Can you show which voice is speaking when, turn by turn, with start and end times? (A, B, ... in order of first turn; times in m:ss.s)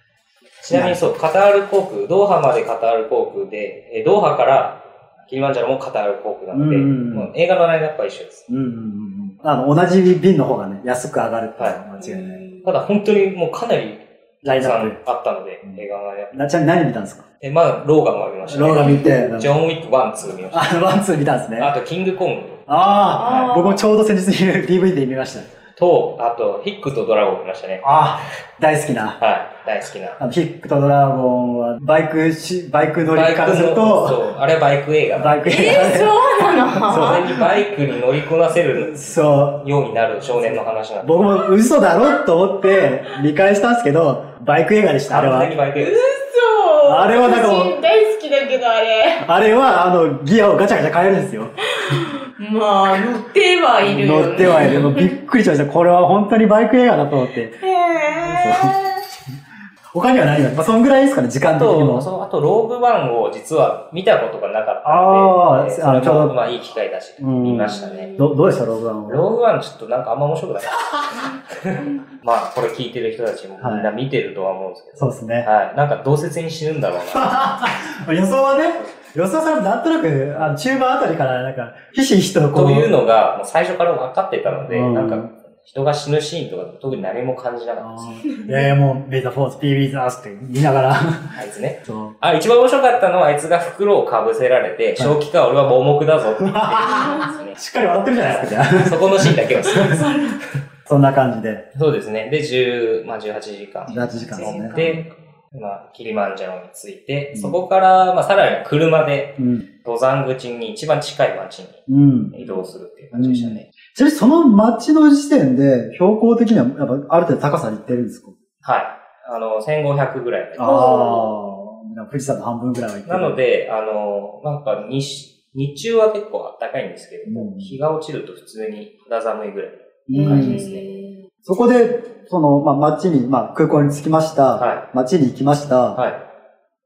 0:00.6-0:08.4 A
0:00.7-0:01.1 B
0:06.5-0:07.3 B
0:08.5-0:12.4 B
0:12.0-0:12.7 C
0:12.6-0:16.5 A
0:14.4-0:15.0 B
0:16.3-0:17.2 B
0:17.4-0:20.8 A
0:18.4-0:19.5 B
0:18.8-0:19.3 C
0:20.5-0:21.7 B
0:21.6-0:22.6 A
0:22.7-0:25.5 B
0:23.1-0:23.9 C
0:23.2-0:23.5 A
0:25.8-0:27.9 A
0:27.8-0:29.2 B
0:29.2-0:30.2 A
0:30.2-0:34.2 B
0:33.1-0:35.5 A
0:35.2-0:36.3 B
0:35.4-0:37.5 C
0:36.8-0:37.3 B
0:36.9-0:41.2 A
0:38.8-0:39.6 B
0:40.4-0:45.6 B
0:42.0-0:43.1 C
0:45.1-0:46.0 A
0:45.7-0:49.3 C
0:46.8-0:47.8 B
0:49.2-0:51.6 B
0:51.8-0:55.2 C
0:53.8-0:57.6 B
0:57.6-0:59.0 C
0:58.2-0:58.8 B
0:59.9-1:02.1 B
1:01.5-1:08.1 A
1:04.8-1:06.4 B
1:07.2-1:09.2 B
1:07.6-1:08.4 C
1:09.1-1:17.6 A
1:10.7-1:11.2 B
1:13.6-1:13.9 B
1:15.0-1:15.5 B
1:17.1-1:22.9 B
1:22.5-1:28.2 A
1:24.7-1:25.3 B
1:27.8-1:32.2 B
1:28.3-1:28.7 C
1:31.3-1:37.6 A
1:36.4-1:40.1 B
1:36.8-1:37.4 C
1:38.2-1:40.3 A
1:39.6-1:40.4 C
1:40.8-1:41.6 B
1:41.7-1:53.7 A
1:43.9-1:44.9 B
1:44.2-1:45.1 C
1:47.3-1:47.6 B
1:49.4-1:49.7 B
1:51.9-1:52.4 B
1:53.1-1:58.3 B
1:58.6-2:00.9 A
2:00.6-2:03.4 B
2:00.6-2:01.3 C
2:03.0-2:10.9 A
2:07.2-2:07.8 B
2:10.1-2:10.7 B
2:10.1-2:11.2 C
2:11.4-2:16.0 B
2:14.6-2:14.8 A
2:15.9-2:16.2 A